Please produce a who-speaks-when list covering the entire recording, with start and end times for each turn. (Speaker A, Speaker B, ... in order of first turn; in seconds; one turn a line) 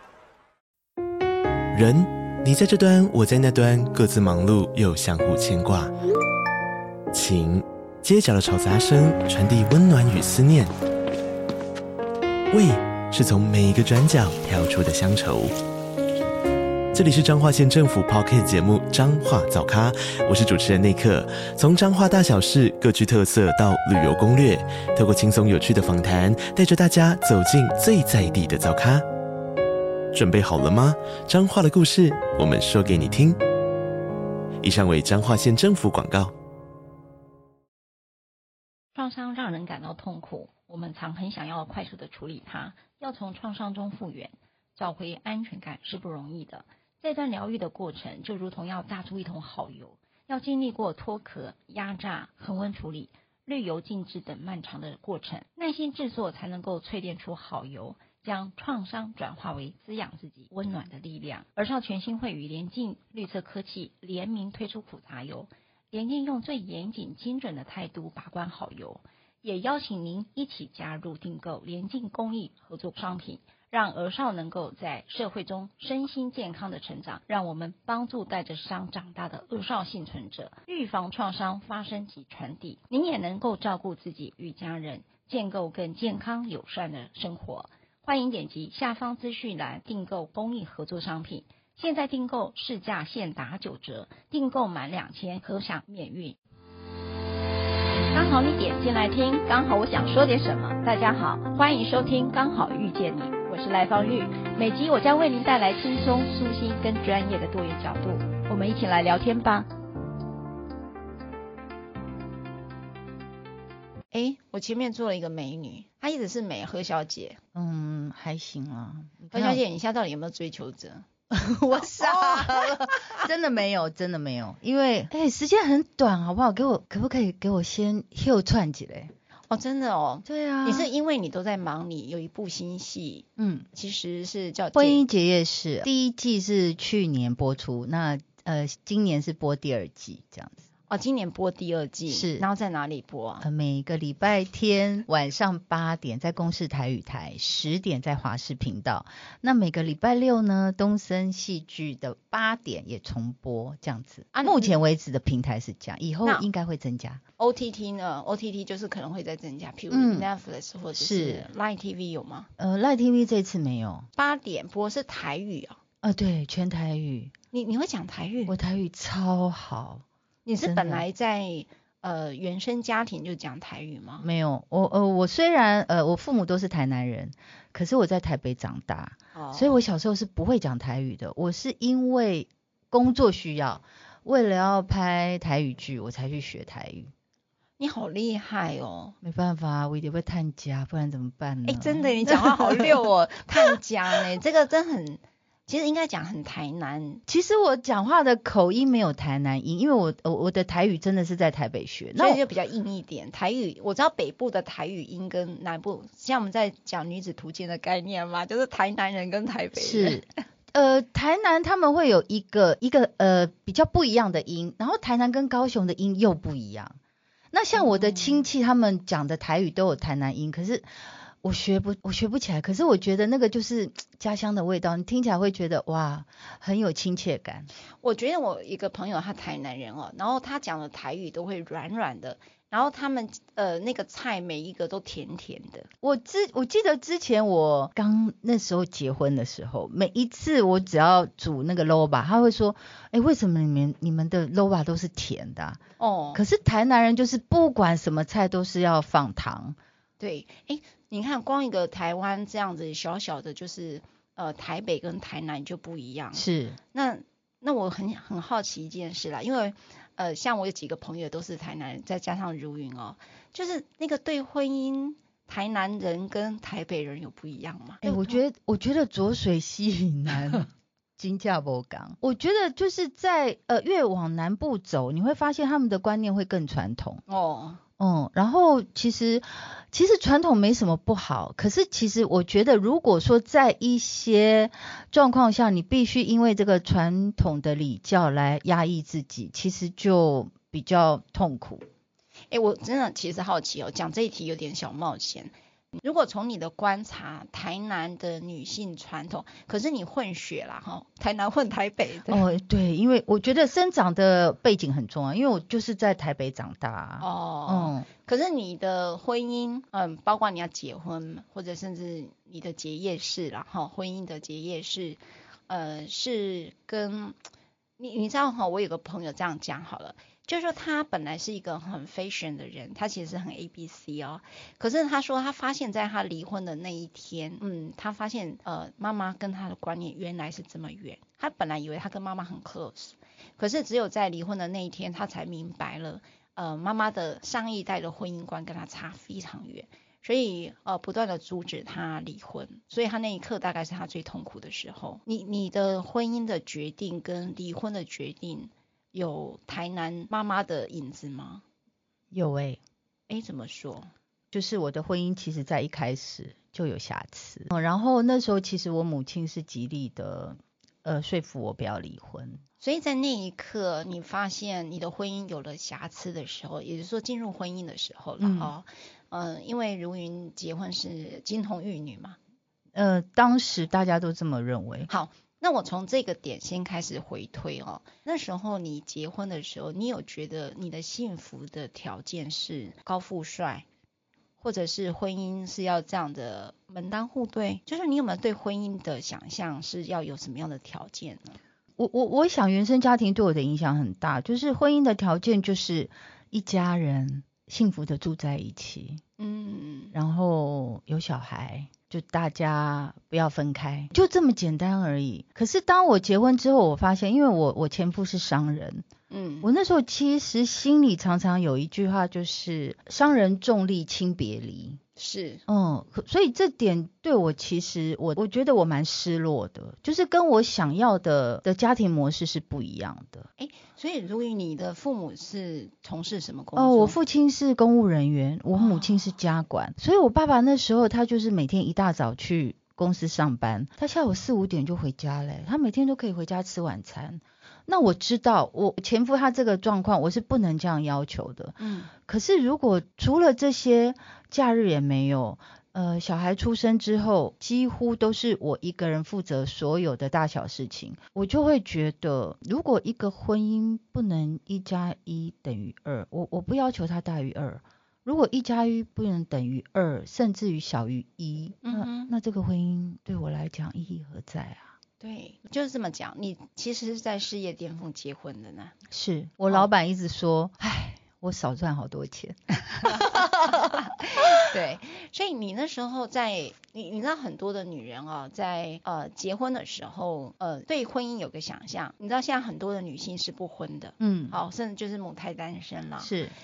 Speaker A: 1.7-5.9
Speaker A: 7.1-10.7
Speaker A: 12.5-15.6
Speaker A: 16.9-29.1
Speaker A: 30.1-33.4
Speaker A: 34.6-36.3
Speaker B: 39.0-96.4
Speaker B: 98.1-109.7
Speaker B: 114.1-117.4
Speaker C: 117.5-119.6
Speaker B: 119.3-121.1
Speaker C: 121.3-129.1
Speaker B: 121.8-123.3
Speaker B: 129.5-135.0
Speaker C: 130.2-130.9
Speaker C: 133.4-133.7
Speaker C: 134.8-140.7
Speaker B: 140.9-143.4
Speaker C: 142.1-142.5
Speaker C: 143.4-157.2
Speaker B: 154.3-154.8
Speaker B: 157.4-162.5
Speaker C: 159.9-160.3
Speaker C: 160.9-161.5
Speaker C: 162.6-164.1
Speaker B: 164.2-165.8
Speaker C: 166.0-167.3
Speaker B: 167.5-168.6
Speaker C: 168.5-170.1
Speaker B: 170.4-174.3
Speaker C: 170.7-171.0
Speaker C: 174.2-187.1
Speaker B: 179.3-179.8
Speaker B: 187.8-189.2
Speaker C: 189.2-193.1
Speaker B: 191.7-197.2
Speaker C: 197.3-202.4
Speaker B: 202.2-210.2
Speaker C: 209.8-217.0
Speaker C: 217.5-220.9
Speaker B: 217.7-218.5
Speaker C: 221.4-227.7
Speaker B: 228.0-235.9
Speaker C: 236.0-245.8
Speaker B: 246.0-246.4
Speaker C: 246.3-249.8
Speaker B: 250.2-268.4
Speaker C: 256.3-256.8
Speaker C: 268.0-277.2
Speaker B: 277.3-277.8
Speaker C: 278.0-291.9
Speaker B: 292.5-302.5
Speaker C: 302.3-308.1
Speaker B: 307.2-317.4
Speaker B: 318.0-351.6
Speaker C: 352.3-352.8
Speaker B: 353.3-354.1
Speaker C: 354.5-362.6
Speaker B: 362.8-372.4
Speaker C: 368.4-368.7
Speaker C: 372.9-375.1
Speaker B: 375.1-383.9
Speaker B: 384.6-391.6
Speaker C: 392.0-399.2
Speaker B: 399.4-400.1
Speaker C: 400.1-409.1
Speaker B: 409.3-409.7
Speaker C: 409.6-415.0
Speaker B: 415.2-415.6
Speaker C: 415.7-423.5
Speaker B: 423.6-427.2
Speaker C: 426.8-465.0
Speaker B: 428.7-429.4
Speaker B: 441.8-442.1
Speaker B: 461.8-462.3
Speaker B: 465.2-469.0
Speaker C: 469.1-474.6
Speaker B: 473.0-486.3
Speaker C: 484.2-484.6
Speaker C: 486.2-486.5